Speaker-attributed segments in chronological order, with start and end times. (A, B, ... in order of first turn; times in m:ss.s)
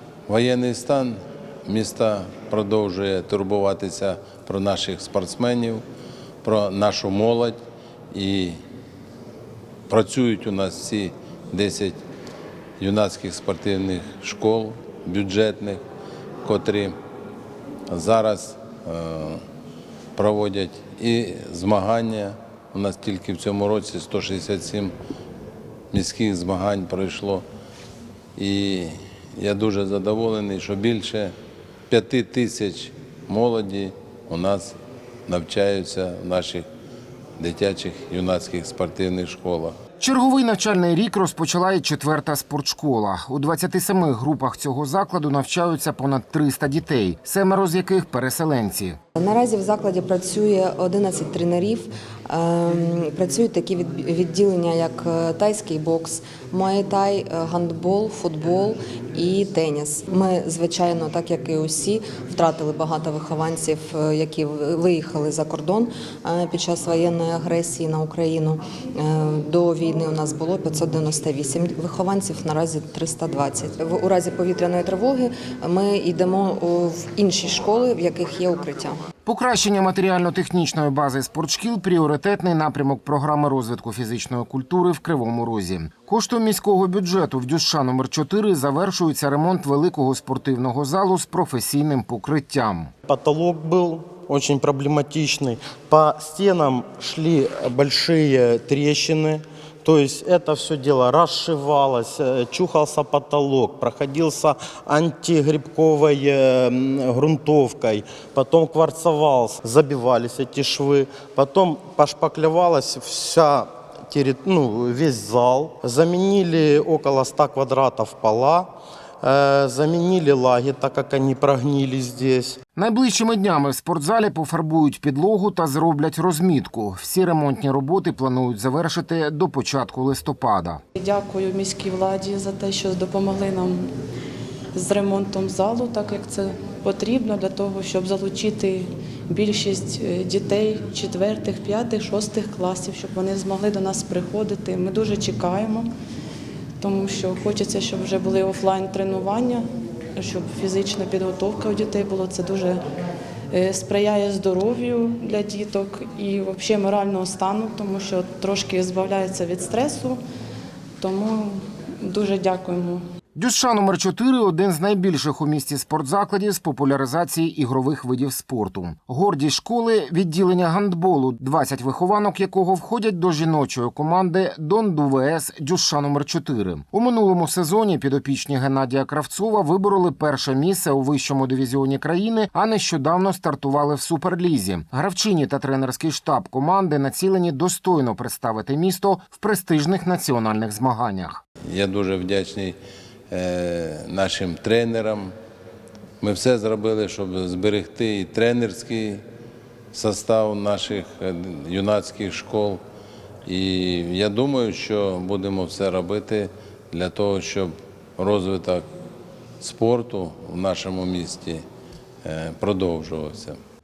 0:00.3-0:05.8 A
0:06.4-0:07.6 A
0:08.1-0:08.6 A
0:09.9-0:12.0 A
0:12.8-0:15.8 A
0:16.4-0:17.0 A
0:17.9-0:19.4 A
0:20.2-0:24.9 A
0:25.9-0:27.4 A
0:28.4-0:31.3 A
0:31.9-0:34.8 A
0:35.3-0:36.7 A
0:37.4-0:39.8 A
0:40.0-0:49.0 B
0:49.2-1:19.0 C
1:19.3-1:32.9 B
1:33.1-1:58.7 D
1:59.2-2:02.6 D
2:02.8-2:10.8 B
2:11.0-2:13.8 E
2:14.7-2:25.9 E
2:26.8-2:29.6 E
2:30.2-2:32.8 E
2:33.5-2:40.2 E
2:41.0-2:43.0 E
2:43.4-3:11.4 B
3:11.7-3:12.8 A
3:13.3-3:15.4 A
3:16.2-3:19.2 A
3:19.9-3:22.8 A
3:23.5-3:28.9 A
3:29.6-3:31.6 A
3:32.2-3:33.6 A